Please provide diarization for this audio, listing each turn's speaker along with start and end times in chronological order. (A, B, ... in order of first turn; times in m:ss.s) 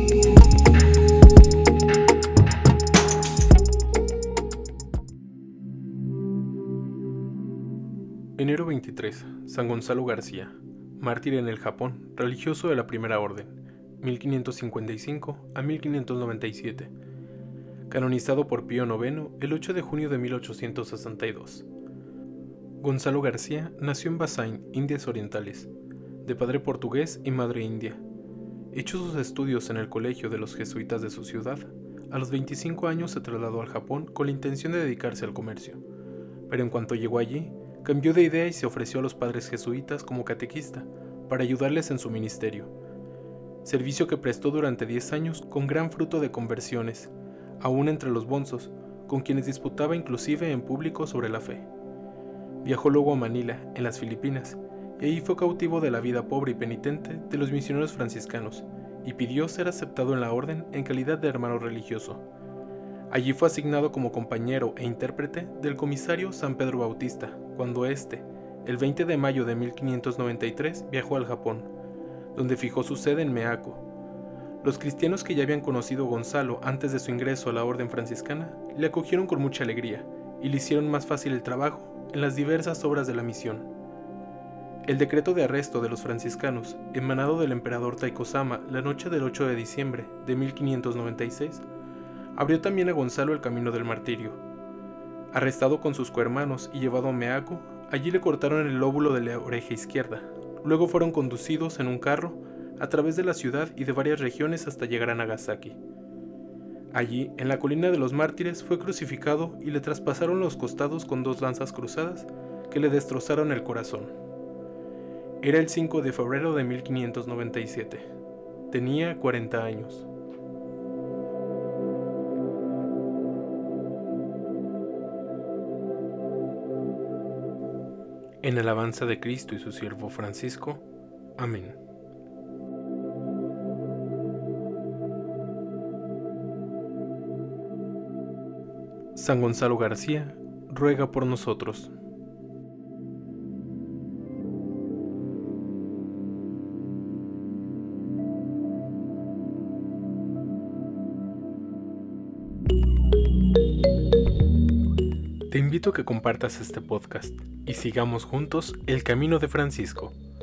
0:08.4-0:16.9 A
0:17.9-0:21.7 A
0:22.8-0:25.7 A
0:26.2-0:28.0 A
0:28.7-0:35.8 A
0:36.5-0:42.7 A
0:43.6-0:51.7 A
0:52.6-1:02.2 A
1:03.1-1:11.7 A
1:12.3-1:13.8 A
1:14.6-1:23.7 A
1:24.8-1:31.6 A
1:32.3-1:34.4 A
1:35.3-1:45.8 A
1:46.9-1:54.1 A
1:55.4-1:58.1 A
1:58.7-2:00.1 A
2:08.4-2:10.8 A
2:11.4-2:11.8 A
2:19.1-2:21.9 A
2:35.5-2:40.2 A